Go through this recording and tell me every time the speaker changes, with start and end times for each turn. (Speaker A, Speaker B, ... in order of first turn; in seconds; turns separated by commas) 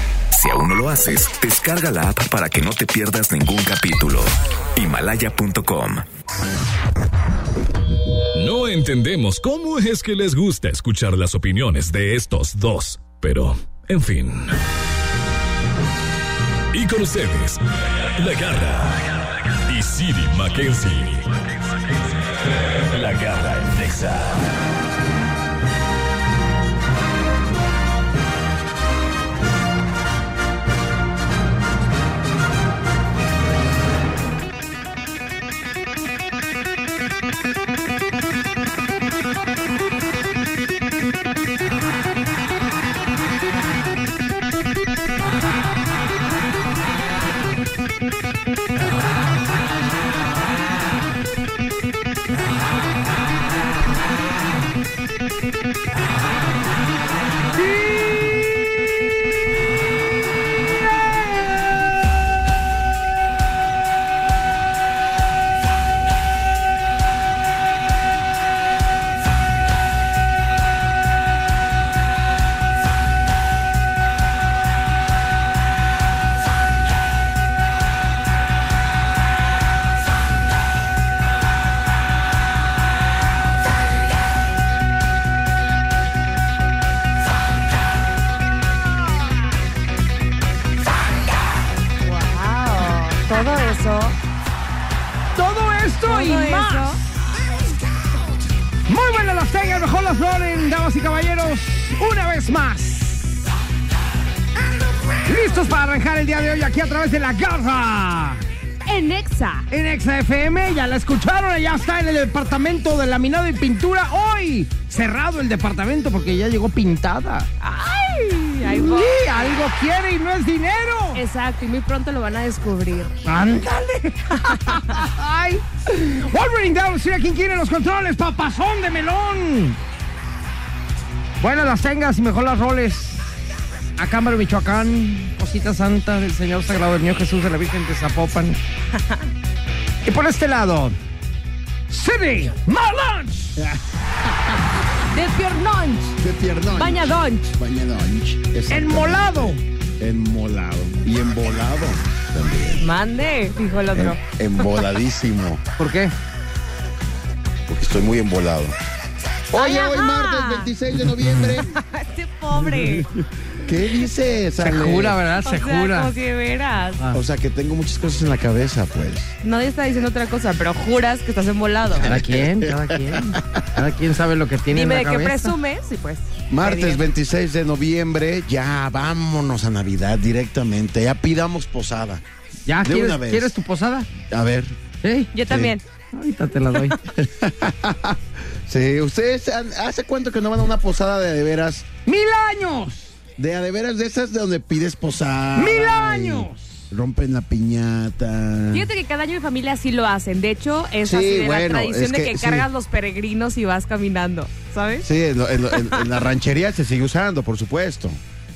Speaker A: 0.3-6.0, Speaker B: 8.3-14.6, Speaker B: 16.7-24.5, Speaker C: 92.0-94.2, Speaker D: 95.3-97.0, Speaker C: 96.1-97.0, Speaker D: 98.9-103.4, Speaker D: 105.2-108.4, Speaker C: 108.8-109.7, Speaker D: 109.7-117.5, Speaker C: 117.6-119.6, Speaker D: 118.7-121.2, Speaker C: 121.1-123.2, Speaker D: 123.2-129.8, Speaker C: 124.5-125.0, Speaker D: 131.4-133.2, Speaker D: 134.0-138.6, Speaker D: 140.0-141.0, Speaker D: 141.9-143.5, Speaker E: 143.6-143.8, Speaker D: 145.1-146.2, Speaker E: 146.2-152.9, Speaker C: 146.7-147.5, Speaker D: 148.7-149.6, Speaker C: 152.8-154.7, Speaker E: 153.9-155.6, Speaker D: 155.8-156.1, Speaker E: 157.7-158.8, Speaker E: 159.5-161.7, Speaker C: 159.5-160.7, Speaker C: 161.6-163.1, Speaker E: 162.6-165.2, Speaker D: 164.6-166.1, Speaker C: 165.4-167.0, Speaker E: 167.1-169.3, Speaker C: 169.4-172.1, Speaker E: 171.9-173.7, Speaker D: 172.0-175.5, Speaker C: 174.7-177.0, Speaker E: 176.5-182.2, Speaker D: 182.7-184.1, Speaker E: 182.8-183.6, Speaker E: 184.2-184.8, Speaker D: 185.0-185.3, Speaker C: 185.3-185.8, Speaker E: 185.5-185.8, Speaker D: 186.1-187.0, Speaker E: 187.1-191.9, Speaker D: 192.1-193.1, Speaker E: 193.4-198.9, Speaker D: 195.6-196.8, Speaker C: 198.7-205.1, Speaker E: 201.0-202.7, Speaker E: 205.0-208.2